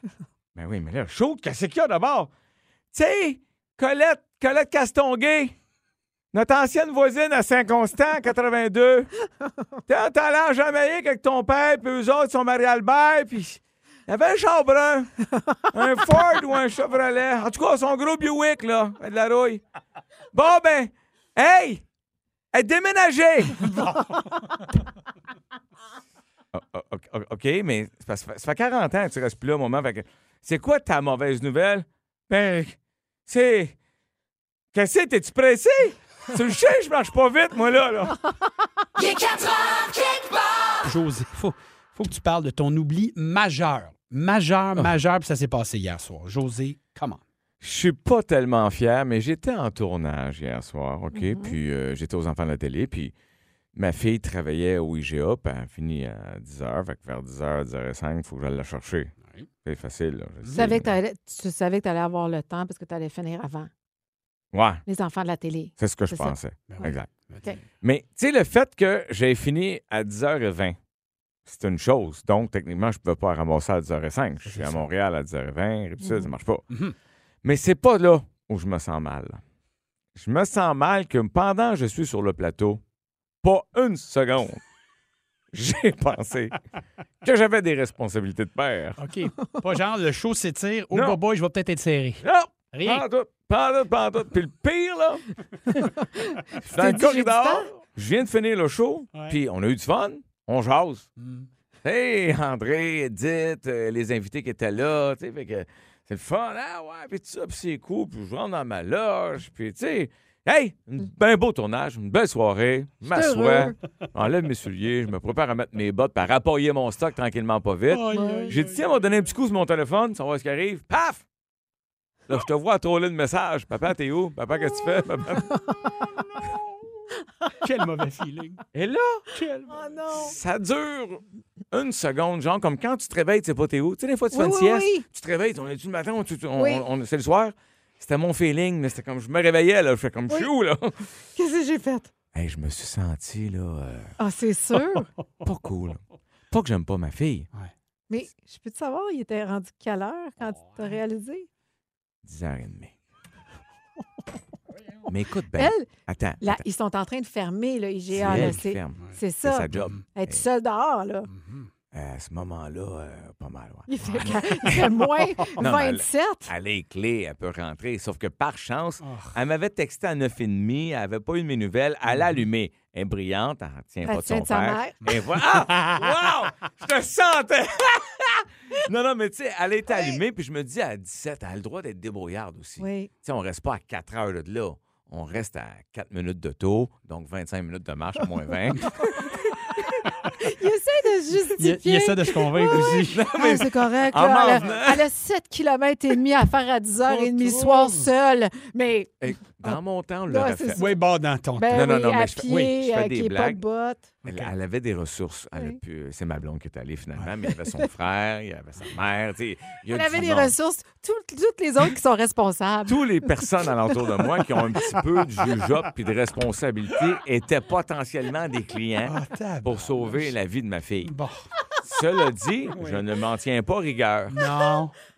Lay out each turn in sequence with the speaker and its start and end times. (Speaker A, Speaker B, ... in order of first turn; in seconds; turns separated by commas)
Speaker A: 0.5-2.3, Speaker A: 2.9-5.5, Speaker A: 6.3-9.1, Speaker A: 9.9-15.1, Speaker A: 15.6-19.6, Speaker A: 20.3-21.8, Speaker A: 22.5-23.8, Speaker A: 26.5-33.7, Speaker A: 34.7-38.3, Speaker B: 40.8-47.2, Speaker A: 47.6-53.1, Speaker C: 51.1-51.5, Speaker A: 53.7-60.9, Speaker C: 60.5-63.7, Speaker A: 64.5-64.8, Speaker C: 64.8-67.6, Speaker A: 65.8-67.2, Speaker B: 66.7-67.5, Speaker A: 67.8-70.8, Speaker A: 71.5-76.7, Speaker B: 74.5-74.9, Speaker C: 76.0-76.3, Speaker A: 77.4-79.4, Speaker A: 80.1-82.8, Speaker A: 83.4-84.6, Speaker A: 85.5-86.6, Speaker A: 87.2-89.1, Speaker B: 89.0-93.0, Speaker A: 90.9-91.2, Speaker A: 92.2-95.9, Speaker A: 96.6-101.1, Speaker C: 96.6-97.7, Speaker B: 101.2-101.5, Speaker A: 101.8-121.2, Speaker C: 113.0-113.7, Speaker B: 117.9-118.8, Speaker C: 118.1-118.6, Speaker A: 122.3-125.6, Speaker B: 127.6-128.6, Speaker A: 128.7-129.3, Speaker B: 129.3-129.8, Speaker C: 129.7-130.3, Speaker A: 130.1-141.1, Speaker C: 134.3-135.0, Speaker C: 136.6-136.8, Speaker C: 141.3-142.1, Speaker A: 142.3-144.1, Speaker C: 144.2-145.1, Speaker A: 145.4-147.5, Speaker C: 148.1-151.5, Speaker A: 152.2-152.9, Speaker A: 155.1-156.6, Speaker C: 155.5-155.9, Speaker C: 156.4-161.3, Speaker A: 158.1-160.4, Speaker B: 158.2-158.5, Speaker B: 161.3-161.7, Speaker A: 161.9-164.9, Speaker C: 163.9-166.5, Speaker B: 164.0-164.3, Speaker A: 165.6-189.3, Speaker B: 169.0-169.3, Speaker C: 174.0-175.0, Speaker C: 182.8-183.1, Speaker C: 190.4-201.0, Speaker B: 191.6-193.2, Speaker A: 192.7-195.0, Speaker B: 197.0-198.1, Speaker A: 199.2-200.8, Speaker B: 200.7-201.8, Speaker C: 201.6-204.1, Speaker A: 201.7-203.6, Speaker B: 204.2-204.5, Speaker A: 204.2-210.5, Speaker C: 209.9-213.8, Speaker A: 212.9-221.1, Speaker B: 219.0-220.3, Speaker B: 221.0-221.5, Speaker A: 221.8-224.4, Speaker B: 222.7-223.0, Speaker B: 224.3-224.9